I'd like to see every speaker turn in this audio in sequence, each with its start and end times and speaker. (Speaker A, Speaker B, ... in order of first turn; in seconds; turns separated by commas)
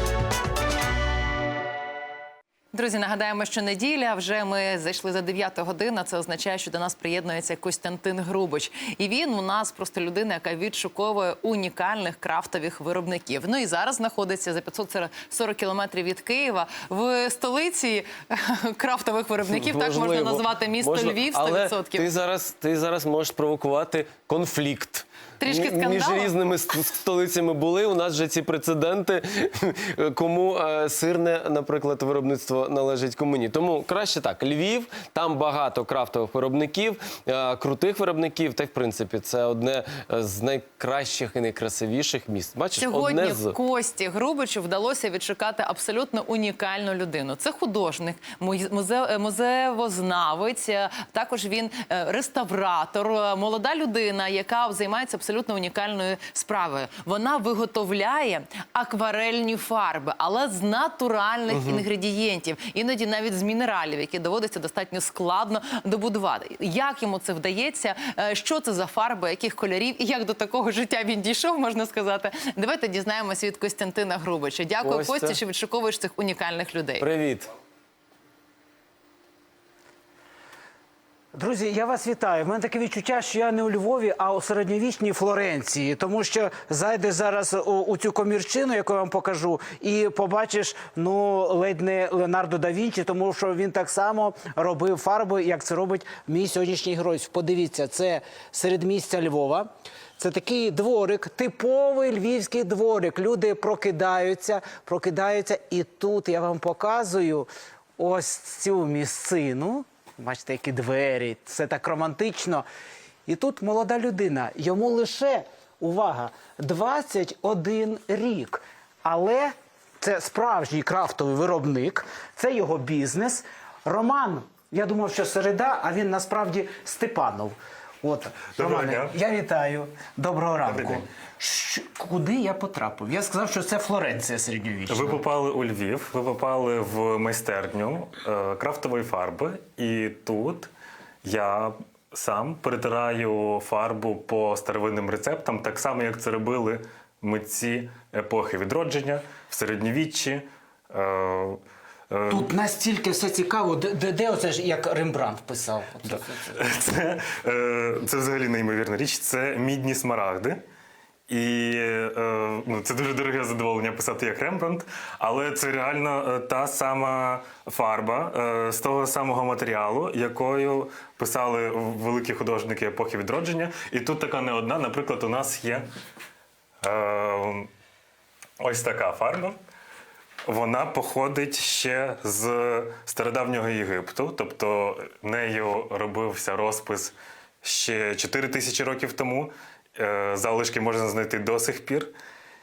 Speaker A: 2.7-22.1, Speaker B: 19.5-43.6, Speaker A: 25.4-26.4, Speaker A: 42.8-77.1, Speaker B: 74.8-75.4, Speaker B: 77.0-77.5, Speaker C: 81.3-112.7, Speaker C: 113.3-135.2, Speaker D: 128.5-129.2, Speaker D: 130.7-131.1, Speaker D: 134.9-140.7, Speaker D: 141.2-152.5, Speaker C: 152.3-156.6, Speaker D: 156.1-160.6, Speaker D: 161.3-175.9, Speaker D: 176.8-177.7, Speaker D: 178.6-179.6, Speaker D: 180.5-192.1